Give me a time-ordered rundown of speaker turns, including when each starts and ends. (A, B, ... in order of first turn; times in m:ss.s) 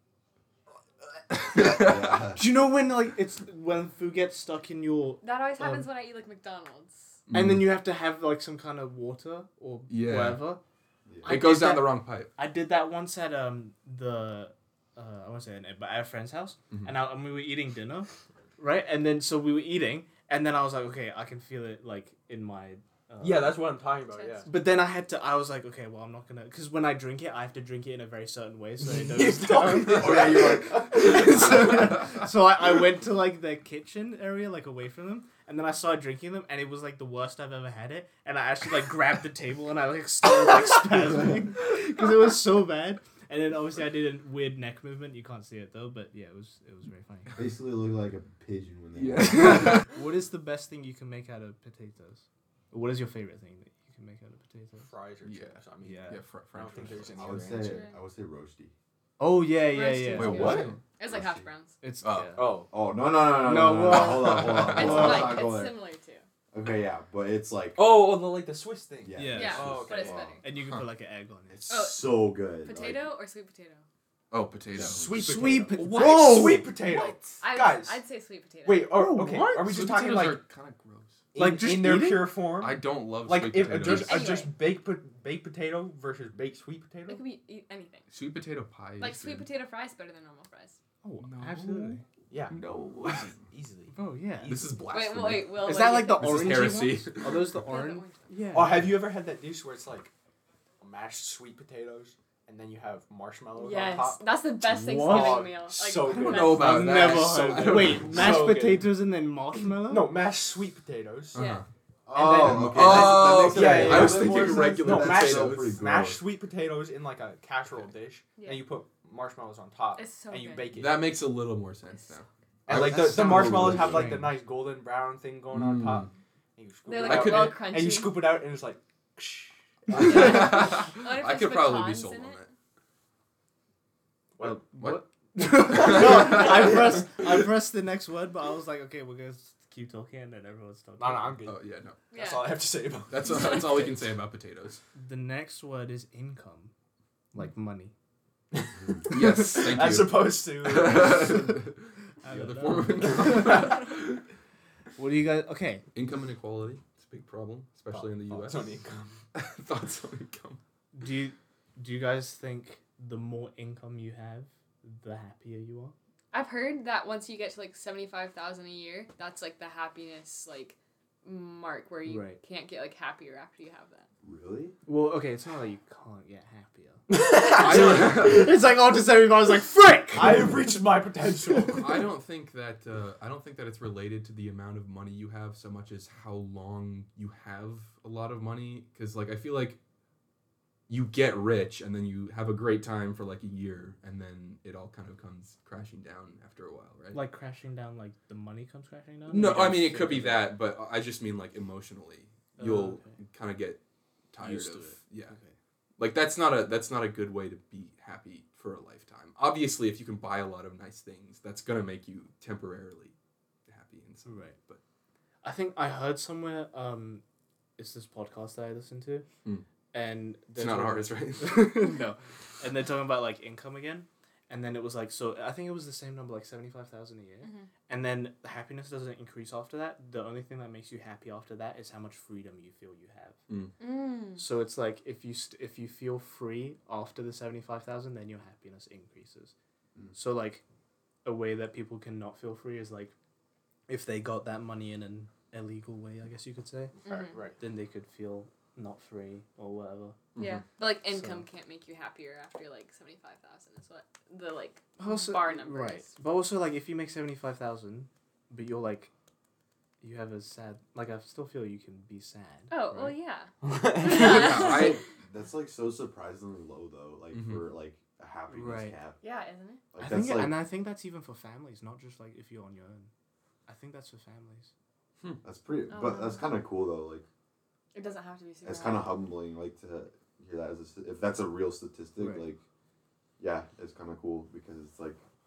0:01.3-0:02.2 A
0:01.6-0:02.4 B
0:02.4-0:05.9 C
0:05.2-0:07.2 D
0:07.3-0:07.7 A
0:07.3-0:10.6 C
0:09.9-0:10.5 A
0:11.1-0:11.4 B
0:11.2-0:12.3 A
0:11.2-0:23.8 C
0:16.7-0:17.0 A
0:23.2-0:24.5 E
0:24.0-0:24.5 D
0:24.4-0:47.4 C
0:28.8-0:31.8 E
0:29.9-0:32.2 A
0:30.0-0:31.4 B
0:47.4-0:49.8 B
0:48.9-0:49.9 A
0:49.3-0:54.9 C
0:54.8-0:57.8 E
0:55.2-0:57.5 A
0:55.8-0:56.2 C
0:57.0-0:58.7 B
0:57.6-0:58.0 D
0:59.2-1:00.8 C
0:59.7-1:01.8 D
1:00.1-1:00.8 A
1:00.2-1:01.5 B
1:01.8-1:02.7 C
1:02.0-1:02.5 A
1:02.4-1:02.7 E
1:02.7-1:05.8 B
1:03.3-1:05.4 C
1:04.0-1:05.2 A
1:04.7-1:06.2 D
1:06.5-1:07.8 B
1:07.8-1:10.4 E
1:09.0-1:10.4 B
1:09.1-1:09.6 C
1:09.4-1:10.4 D
1:09.6-1:10.0 A
1:10.4-1:11.7 C
1:10.6-1:10.9 A
1:11.5-1:13.1 B
1:11.7-1:13.9 D
1:14.3-1:16.7 A
1:14.8-1:18.0 E
1:14.8-1:15.0 B
1:15.2-1:16.7 C
1:16.8-1:18.9 D
1:18.6-1:20.4 E
1:18.9-1:19.9 C
1:19.5-1:21.3 A
1:21.3-1:27.2 E
1:21.4-1:22.3 C
1:22.6-1:24.4 A
1:23.7-1:24.7 D
1:27.1-1:28.1 D
1:28.1-1:29.5 A
1:29.0-1:30.8 D
1:31.0-1:32.0 C
1:31.2-1:33.4 A
1:32.3-1:34.9 E
1:33.9-1:34.7 C
1:34.4-1:37.7 A
1:34.9-1:36.5 D
1:35.6-1:38.9 C
1:37.5-1:38.3 D
1:38.5-1:40.1 E
1:40.8-1:44.2 E
1:43.6-1:46.9 D
1:44.7-1:45.5 C
1:45.0-1:48.9 E
1:46.0-1:48.5 A
1:46.6-1:50.2 C
1:49.8-1:51.4 E
1:51.3-1:51.7 A
1:51.4-1:51.6 D
1:52.1-1:56.2 B
1:52.1-2:01.2 E
1:52.3-1:55.8 A
1:58.4-1:58.7 D
2:00.0-2:00.7 D
2:00.7-2:04.0 A
2:02.7-2:10.8 E
2:02.7-2:04.4 C
2:02.7-2:04.1 B
2:05.5-2:06.1 A
2:06.9-2:08.3 D
2:07.0-2:07.6 A
2:09.9-2:12.5 A
2:10.0-2:12.4 D
2:14.4-2:14.6 E
2:14.4-2:21.4 C
2:14.4-2:15.0 A
2:15.6-2:17.0 A
2:21.0-2:23.7 E
2:21.4-2:22.1 A
2:22.1-2:22.6 D
2:23.1-2:24.8 A
2:23.2-2:23.9 D
2:24.9-2:26.7 C
2:27.3-2:27.9 C
2:29.0-2:34.2 A
2:29.1-2:31.5 E
2:32.2-2:33.6 C
2:33.0-2:33.7 E
2:35.0-2:35.8 C
2:35.9-2:38.8 A
2:37.9-2:39.2 E
2:39.3-2:40.6 A
2:40.9-2:45.9 C
2:46.3-2:54.1 D
2:52.0-2:52.4 C
2:54.2-2:54.8 B
2:54.8-3:00.6 C
2:57.1-2:58.3 E
2:57.5-2:58.5 A
3:00.1-3:02.1 E
3:01.7-3:09.8 A
3:10.9-3:17.2 A
3:17.1-3:20.5 C
3:19.3-3:23.8 A
3:22.6-3:23.2 C
3:24.3-3:25.4 A
3:24.4-3:25.6 C
3:26.0-3:33.2 A
3:33.7-3:34.8 A
3:34.2-3:34.6 C
3:35.4-3:37.2 C
3:37.8-3:39.3 C
3:39.9-3:53.4 C
3:40.6-3:41.9 A
3:47.4-3:47.7 D
3:53.5-3:53.7 A
3:53.8-3:54.4 D
3:54.4-3:59.5 C
4:00.1-4:00.6 C
4:01.2-4:03.1 C
4:03.9-4:07.0 C
4:07.0-4:07.6 E
4:07.0-4:07.4 D
4:07.6-4:10.2 C
4:10.3-4:10.6 A
4:10.4-4:16.1 D
4:11.1-4:11.4 C
4:15.0-4:19.1 C
4:20.0-4:23.2 C
4:22.7-4:25.0 D
4:23.6-4:24.7 E
4:24.1-4:25.0 A
4:24.6-4:29.2 B
4:27.3-4:27.7 A
4:28.5-4:29.0 C
4:29.2-4:29.8 D
4:29.9-4:30.6 B
4:30.0-4:33.1 C
4:33.7-4:34.7 C
4:35.4-4:37.3 B
4:35.9-4:36.5 D
4:37.9-4:39.2 D
4:38.6-4:42.6 B
4:42.2-4:42.5 C
4:43.4-4:45.2 B